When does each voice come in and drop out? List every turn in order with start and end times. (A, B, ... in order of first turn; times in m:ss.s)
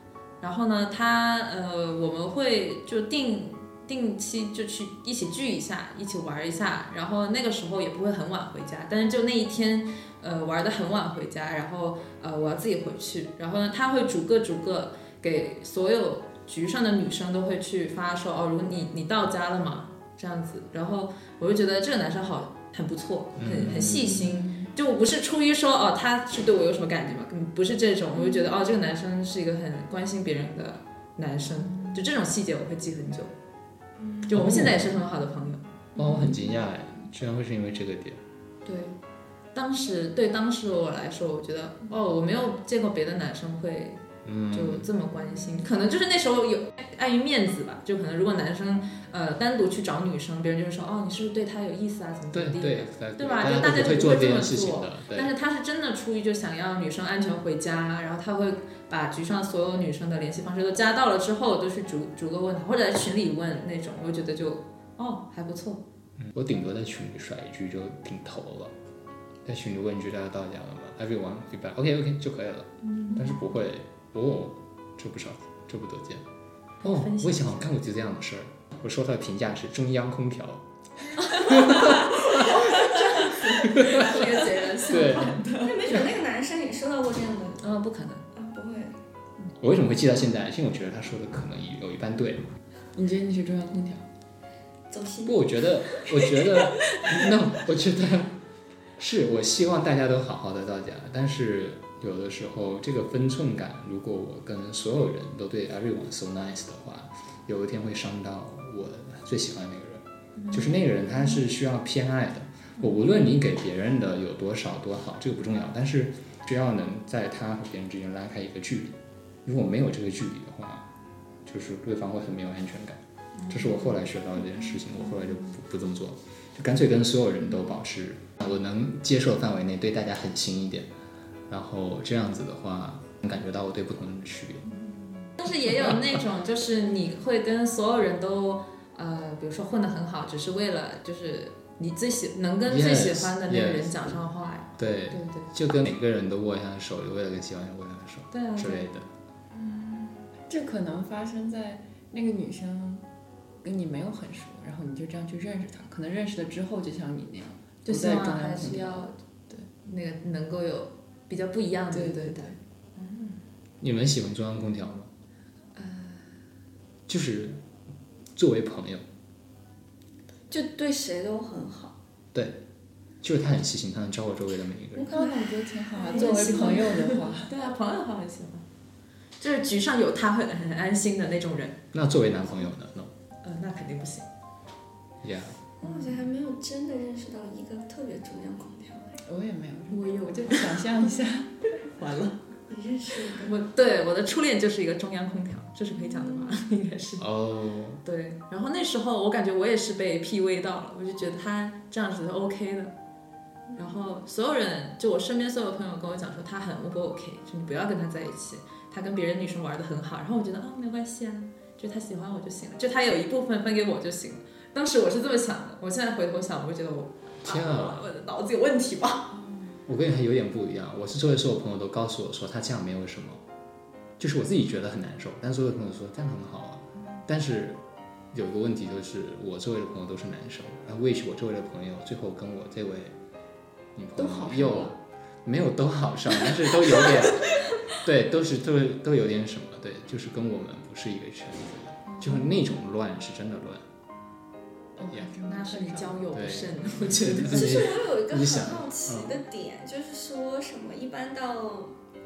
0:00.4-0:33.3 A
0:23.4-0:24.4 B
0:24.3-0:24.7 C
0:34.3-0:35.6 A
0:34.3-0:34.9 B
0:36.0-0:38.2 B
0:36.0-0:36.6 C
0:38.7-0:38.9 A
0:39.5-1:05.8 A
0:44.2-0:44.9 B
0:52.3-0:55.3 B
1:06.2-1:08.8 B
1:09.4-1:16.2 B
1:12.8-1:13.4 A
1:16.8-1:20.6 B
1:16.8-1:17.7 A
1:21.3-1:22.7 B
1:21.3-1:25.7 A
1:21.7-1:25.2 C
1:23.6-1:24.3 B
1:24.8-1:26.1 B
1:25.6-1:27.6 D
1:27.6-1:28.3 A
1:28.3-1:29.0 D
1:29.6-1:32.4 B
1:33.0-1:34.1 C
1:34.9-1:36.1 D
1:35.2-1:38.4 B
1:39.0-2:00.9 B
1:50.4-1:51.4 A
2:01.4-2:10.9 B
2:03.4-2:03.9 A
2:11.5-2:14.7 B
2:14.7-2:15.3 C
2:15.4-2:25.5 A
2:15.5-2:16.2 B
2:22.7-2:24.2 B
2:24.8-2:29.1 B
2:28.3-2:28.9 A
2:29.5-2:33.1 C
2:33.6-2:39.7 C
2:37.8-2:39.2 A
2:39.8-2:43.4 A
2:41.9-2:42.6 C
2:43.8-2:45.1 B
2:47.1-2:47.6 B
2:48.4-2:49.0 B
2:50.5-2:52.0 D
2:52.3-2:52.6 B
2:53.2-2:55.1 B
2:55.0-2:57.5 C
2:55.1-2:57.0 D
2:56.1-2:58.7 A
2:59.4-3:01.8 A
3:01.9-3:03.1 B
3:03.4-3:04.3 A
3:05.2-3:05.6 B
3:05.8-3:09.2 D
3:05.8-3:06.1 C
3:09.3-3:11.5 C
3:09.9-3:10.8 A
3:11.9-3:12.4 A
3:12.7-3:13.6 D
3:13.3-3:17.2 A
3:17.2-3:18.0 B
3:18.0-3:22.9 A
3:23.8-3:39.4 A
3:37.4-3:38.1 B
3:39.9-3:43.4 B
3:44.2-3:47.8 B
3:48.3-3:53.2 B
3:54.0-4:03.8 B
3:54.2-3:54.9 C
4:02.1-4:02.5 C
4:05.0-4:06.2 C
4:05.5-4:07.9 A
4:06.3-4:09.4 B
4:07.4-4:11.9 D